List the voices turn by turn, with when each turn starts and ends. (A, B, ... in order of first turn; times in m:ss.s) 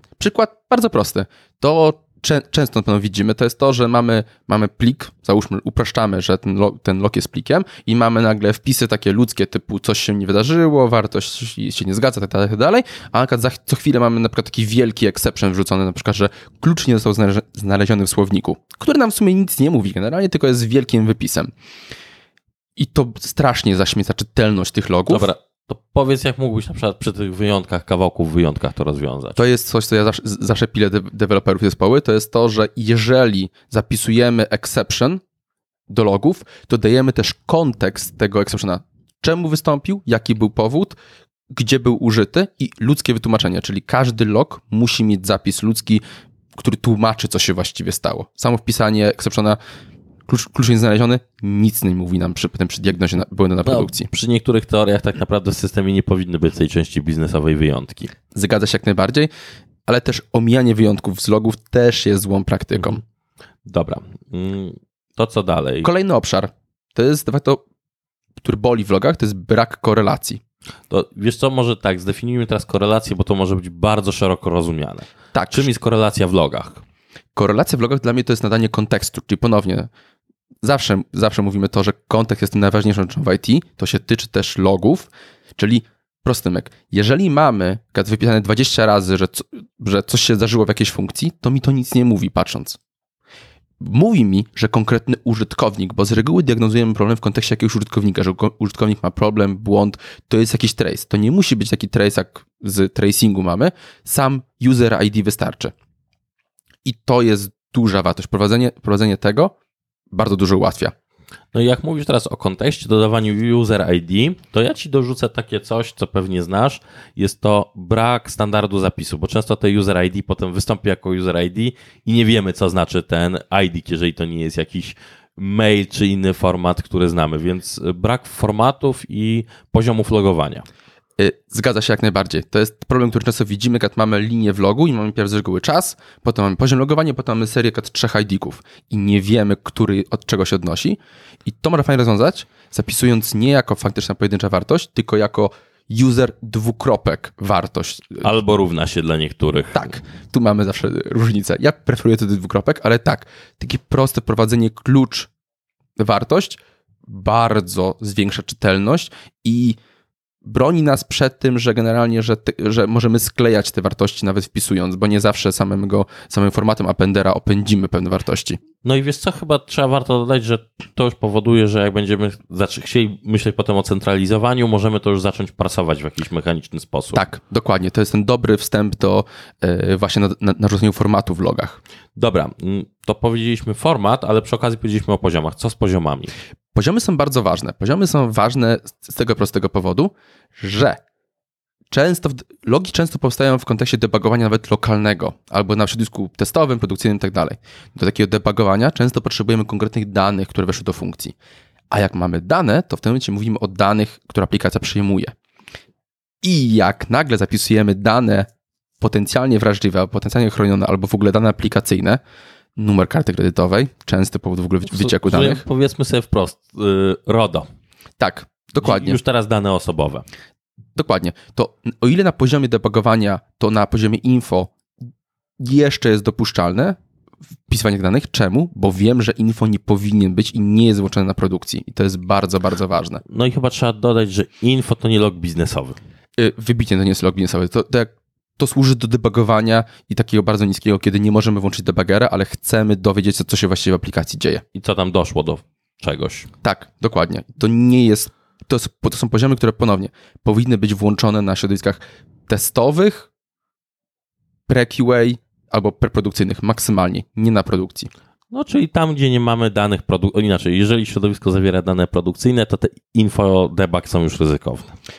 0:00.2-0:21.5 A
0:22.8-0:25.3 A
0:25.1-0:29.4 B
0:29.4-0:35.2 A
0:35.9-0:40.9 A
0:41.5-0:46.0 A
0:46.6-0:49.6 A
0:50.3-0:54.1 A
0:53.6-0:58.1 B
0:58.3-0:59.3 A
0:59.9-1:03.0 A
1:03.6-1:05.9 B
1:05.8-1:07.6 A
1:08.4-1:10.4 A
1:10.9-1:16.8 B
1:15.3-1:15.7 A
1:17.3-1:19.9 A
1:20.6-1:32.8 A
1:33.8-1:45.7 A
1:46.8-1:49.5 A
1:50.1-1:50.9 A
1:51.5-2:10.6 B
2:11.2-2:28.3 A
2:28.2-2:29.9 B
2:29.7-2:35.3 A
2:36.0-2:39.8 A
2:40.4-2:48.6 A
2:48.8-2:57.2 B
2:57.1-3:01.8 A
3:02.2-3:06.3 B
3:06.7-3:11.0 A
3:11.9-3:21.3 A
3:21.9-3:25.3 A
3:26.4-3:28.5 A
3:29.0-3:32.2 A
3:32.8-3:35.6 A
3:34.9-3:37.6 B
3:38.2-3:39.2 A
3:38.8-3:40.2 B
3:41.0-3:44.7 A
3:45.6-3:47.0 A
3:47.7-3:53.2 A
3:53.2-3:56.0 B
3:56.4-4:04.6 A
4:04.7-4:06.5 B
4:06.6-4:13.3 A
4:14.7-4:18.1 A
4:18.5-4:24.9 B